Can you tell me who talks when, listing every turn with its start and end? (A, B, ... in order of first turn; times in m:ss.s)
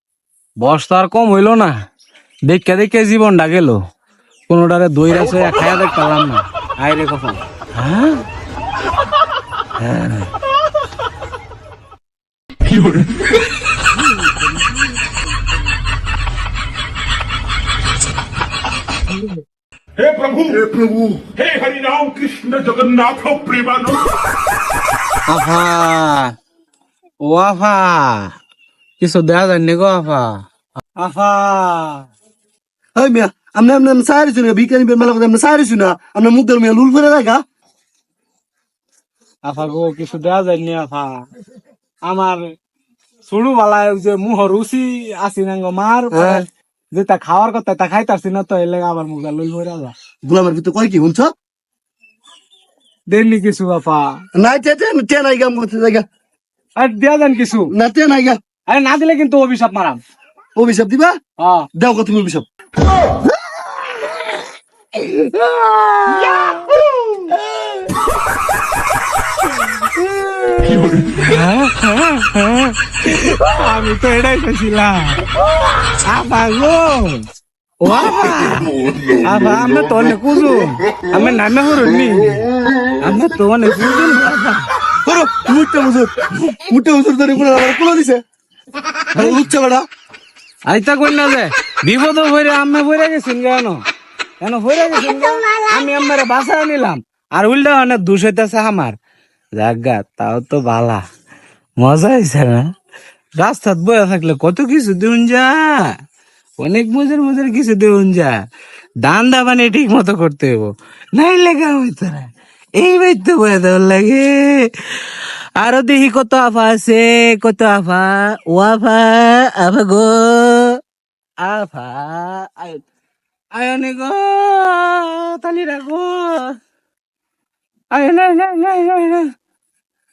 0:00.6-0:01.7 A
0:02.5-0:03.8 A
0:04.5-0:08.2 A
0:09.8-0:10.3 A
0:12.7-0:13.2 B
0:20.0-0:24.2 B
0:25.2-0:26.3 A
0:27.2-0:28.3 A
0:29.0-0:30.4 A
0:31.0-0:32.1 A
0:33.0-0:37.4 C
0:39.4-0:41.2 A
0:42.1-0:42.5 A
0:43.2-0:49.9 A
0:46.1-0:46.4 C
0:50.2-0:51.3 C
0:53.1-0:54.2 A
0:54.3-0:56.0 C
0:56.8-0:57.7 A
0:57.7-0:58.4 C
0:58.7-1:00.0 A
1:00.6-1:01.2 C
1:01.4-1:01.7 A
1:01.7-1:02.5 C
1:04.9-1:06.8 A
1:10.3-1:15.3 A
1:15.9-1:17.2 A
1:17.8-1:22.4 A
1:23.0-1:24.6 A
1:25.0-1:28.2 C
1:29.1-1:29.8 C
1:29.1-1:29.5 A
1:30.7-1:33.8 A
1:34.4-1:39.0 A
1:39.5-1:41.0 A
1:41.8-1:42.7 A
1:43.4-1:45.9 A
1:46.6-1:48.4 A
1:49.0-1:54.7 A
1:55.6-2:00.8 A
2:01.4-2:02.8 A
2:03.5-2:06.5 A
2:07.9-2:09.2 A